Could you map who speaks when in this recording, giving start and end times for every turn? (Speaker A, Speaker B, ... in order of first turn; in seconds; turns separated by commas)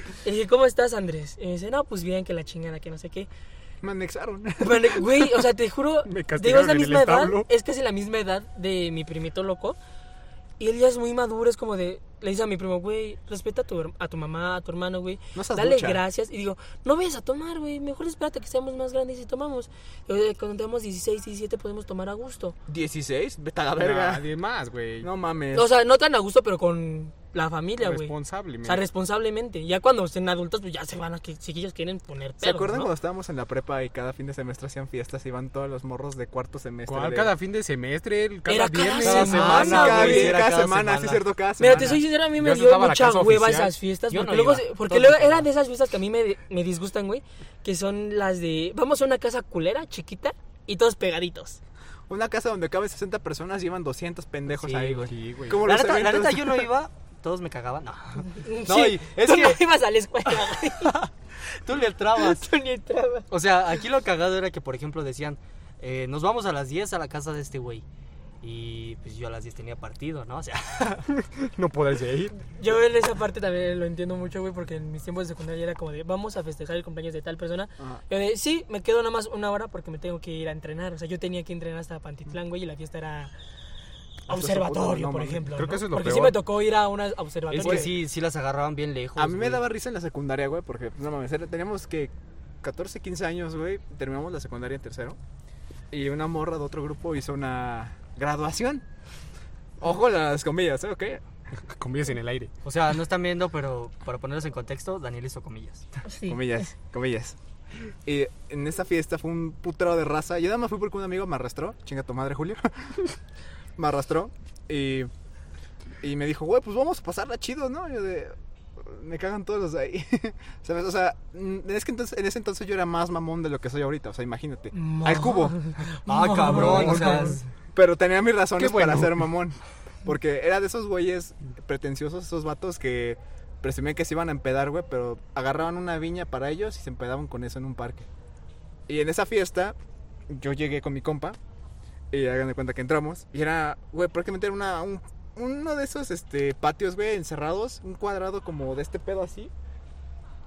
Speaker A: 0.2-3.3, Speaker B: 3.8-5.2, Speaker A: 4.6-9.8, Speaker C: 6.1-7.5, Speaker A: 10.6-22.6, Speaker B: 15.3-16.0, Speaker B: 22.7-24.2, Speaker C: 23.8-25.1, Speaker B: 25.0-25.7, Speaker A: 25.5-32.9, Speaker C: 27.8-28.8, Speaker B: 32.4-37.3, Speaker C: 36.9-40.2, Speaker A: 38.5-40.4, Speaker D: 39.0-41.2, Speaker B: 39.3-42.0, Speaker A: 41.6-51.6, Speaker C: 42.2-43.8, Speaker D: 44.1-45.5, Speaker B: 52.1-56.7, Speaker D: 54.5-59.6, Speaker C: 55.1-55.6, Speaker A: 58.3-61.0, Speaker D: 60.3-61.1, Speaker D: 61.6-62.5, Speaker A: 62.2-63.3, Speaker D: 63.3-67.8, Speaker D: 68.4-71.1, Speaker C: 71.1-72.4, Speaker A: 72.6-83.3, Speaker A: 84.3-87.9, Speaker B: 84.3-85.5, Speaker C: 85.5-86.4, Speaker D: 87.5-89.6, Speaker B: 87.6-87.9, Speaker B: 89.2-95.2, Speaker B: 95.9-98.8, Speaker B: 99.8-101.2, Speaker C: 101.6-102.5, Speaker D: 102.6-105.9, Speaker A: 106.0-106.7, Speaker B: 106.3-107.4, Speaker B: 108.1-113.2, Speaker B: 113.8-115.1, Speaker B: 116.0-125.6, Speaker A: 124.7-127.4, Speaker D: 126.1-127.5, Speaker C: 126.5-127.4, Speaker B: 127.7-138.1, Speaker C: 128.6-129.3, Speaker B: 138.9-139.8, Speaker B: 140.3-141.4, Speaker B: 142.1-149.5